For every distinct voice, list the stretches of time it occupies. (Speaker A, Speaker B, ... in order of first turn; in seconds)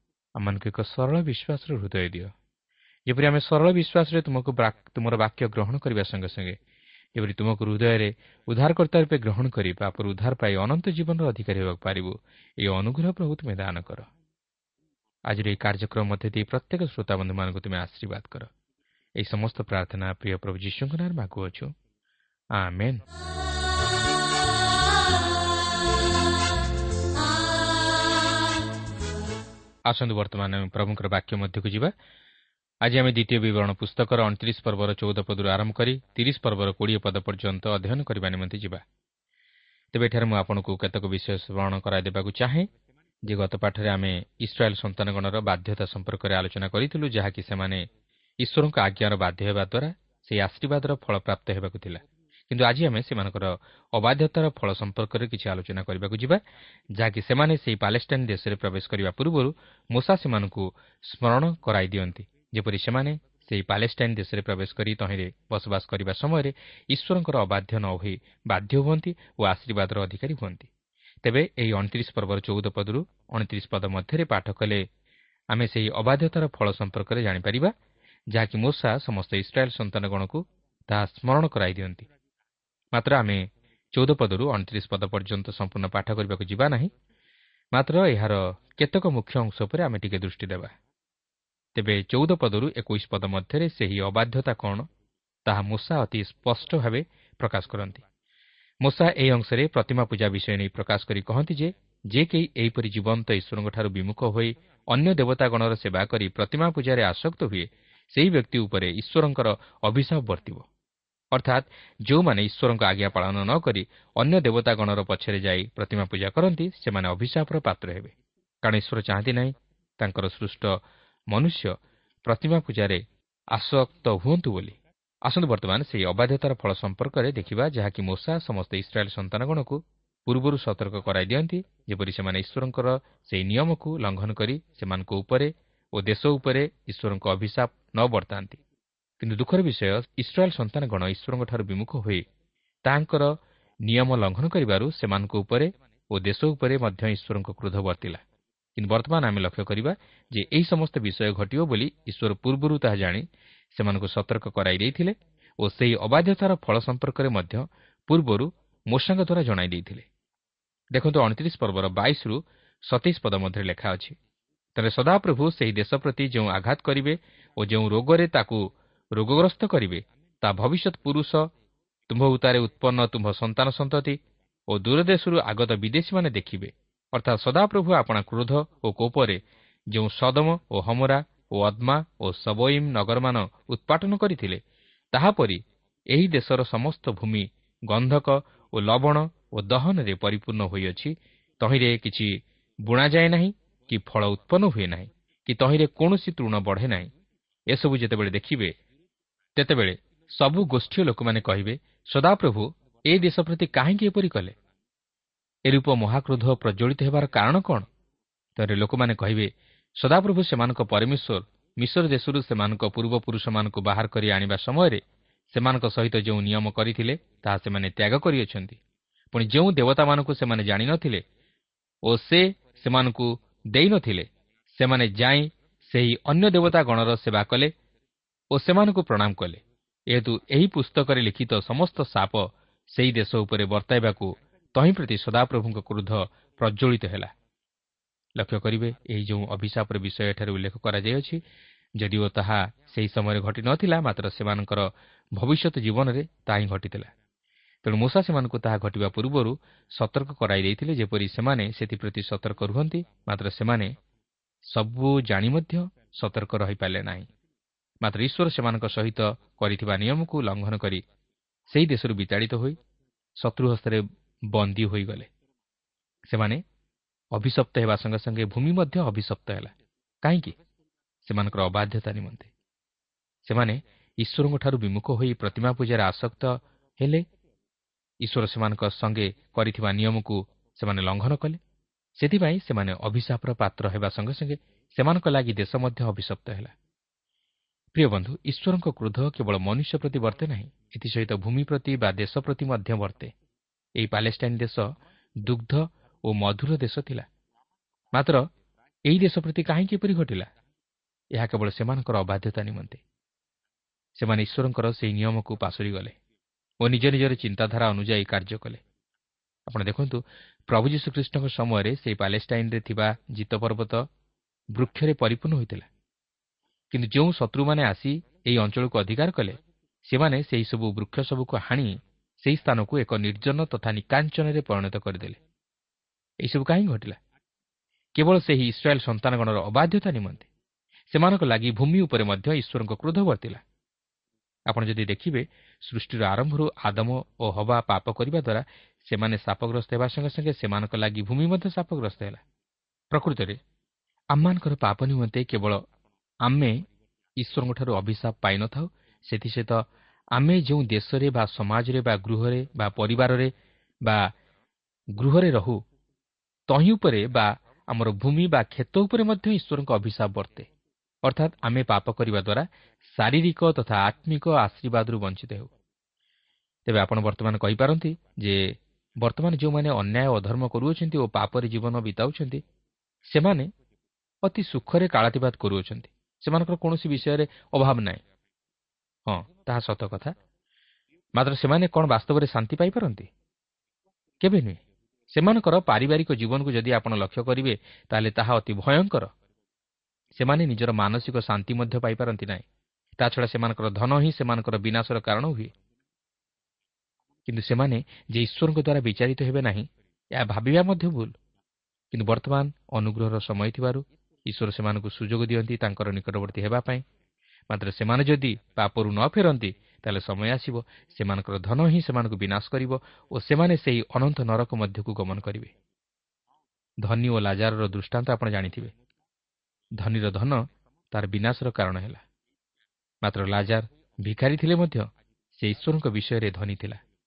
Speaker A: 0.4-2.3, 3.1-6.6, 7.2-14.1, 15.3-18.5, 19.2-21.7, 22.6-23.0, 29.9-31.9, 32.8-38.8, 39.9-42.7, 43.2-47.9, 48.4-56.4, 57.0-70.7, 71.2-74.8, 75.5-77.7, 78.3-82.1, 82.9-86.9, 87.7-90.7, 91.7-94.9, 95.5-98.0, 98.8-110.7, 111.3-120.8, 121.3-138.6, 139.2-142.2, 142.8-148.2, 148.8-160.1, 160.9-164.1, 164.8-171.5, 172.1-179.4, 179.9-184.6, 185.1-197.1, 197.7-198.7, 199.6-204.5, 205.7-207.8, 208.6-218.8, 219.3-221.2, 222.1-227.7, 228.5-237.3, 238.4-241.4, 242.0-247.1, 247.8-253.9, 254.7-257.3, 258.0-261.0, 261.7-262.8, 263.4-265.3, 266.3-266.6, 267.3-270.5, 271.2-272.5, 273.4-277.2, 278.2-281.6, 282.2-286.7, 287.9-293.3, 294.0-294.9, 295.4-297.2, 298.1-298.4, 299.1-300.5, 301.3-303.0, 304.2-306.1, 306.8-308.8, 309.7-314.1, 314.7-315.9, 316.9-325.4, 326.4-327.2, 328.1-330.5, 331.1-333.6, 334.7-342.4, 343.1-343.6, 344.3-345.8, 346.4-346.8, 347.4-349.8, 350.3-353.5, 354.0-354.3, 355.2-355.8, 356.7-360.7, 361.2-365.7, 366.9-372.6, 373.3-373.7, 374.4-378.2, 379.3-380.3, 381.4-383.3, 384.4-389.3, 390.4-392.6, 393.2-395.7, 397.5-401.3, 402.1-407.0, 407.7-415.7, 417.0-418.9, 420.0-422.2, 423.2-427.0